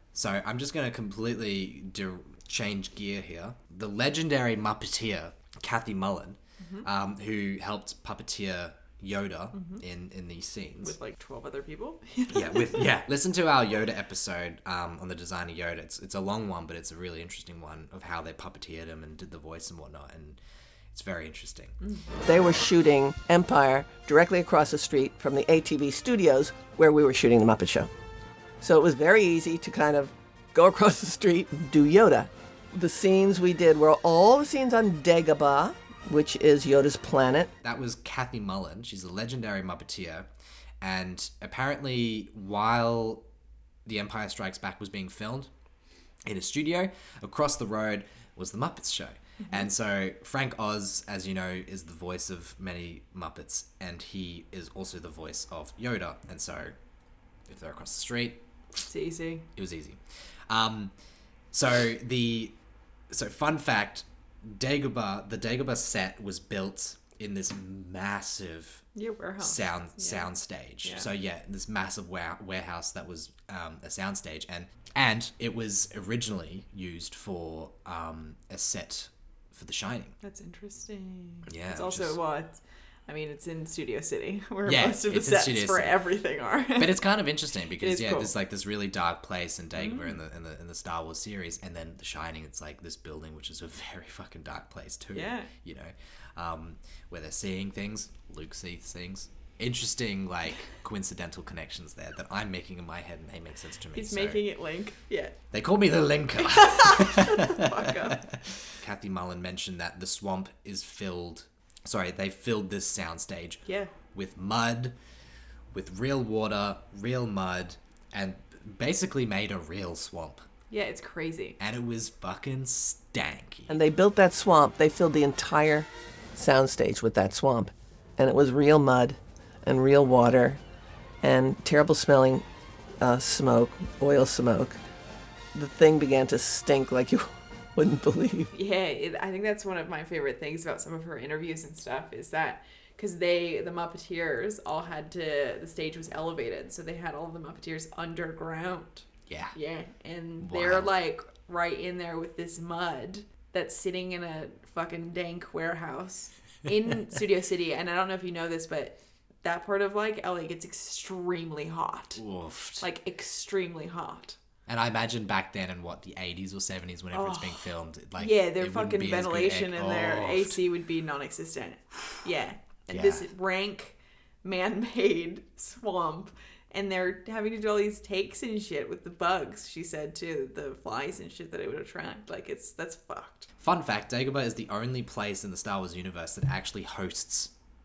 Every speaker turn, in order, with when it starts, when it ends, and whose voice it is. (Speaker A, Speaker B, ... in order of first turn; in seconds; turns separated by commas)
Speaker A: 0.1-10.9, Speaker B: 6.6-6.9, Speaker B: 9.5-9.8, Speaker B: 10.8-12.9, Speaker A: 12.3-20.4, Speaker A: 20.9-21.7, Speaker B: 21.8-22.1, Speaker C: 22.2-27.9, Speaker C: 28.6-37.5, Speaker A: 37.6-40.3, Speaker A: 40.8-43.2, Speaker A: 43.9-45.5, Speaker A: 46.3-56.7, Speaker B: 49.4-49.7, Speaker A: 57.5-58.4, Speaker B: 58.8-59.5, Speaker A: 59.5-60.0, Speaker A: 60.5-60.9, Speaker A: 61.5-62.5, Speaker A: 63.1-68.8, Speaker B: 68.9-70.3, Speaker A: 69.4-80.1, Speaker B: 70.8-71.1, Speaker B: 80.2-87.0, Speaker A: 81.5-82.2, Speaker A: 84.6-86.0, Speaker A: 86.8-104.5, Speaker B: 87.7-88.3, Speaker B: 89.7-90.2, Speaker B: 95.1-95.5, Speaker B: 103.9-105.3, Speaker A: 105.5-114.9, Speaker B: 106.4-108.4, Speaker B: 113.6-113.9, Speaker A: 115.7-120.4, Speaker B: 120.7-121.6, Speaker A: 121.6-123.8, Speaker C: 123.7-130.6, Speaker C: 131.2-132.4, Speaker C: 133.0-134.8, Speaker C: 135.5-138.5, Speaker B: 138.5-162.2, Speaker A: 149.3-149.5, Speaker A: 150.4-150.9, Speaker A: 162.2-162.9, Speaker B: 162.8-164.4, Speaker A: 164.7-170.6, Speaker B: 167.1-183.5, Speaker A: 172.9-173.3, Speaker A: 183.6-187.5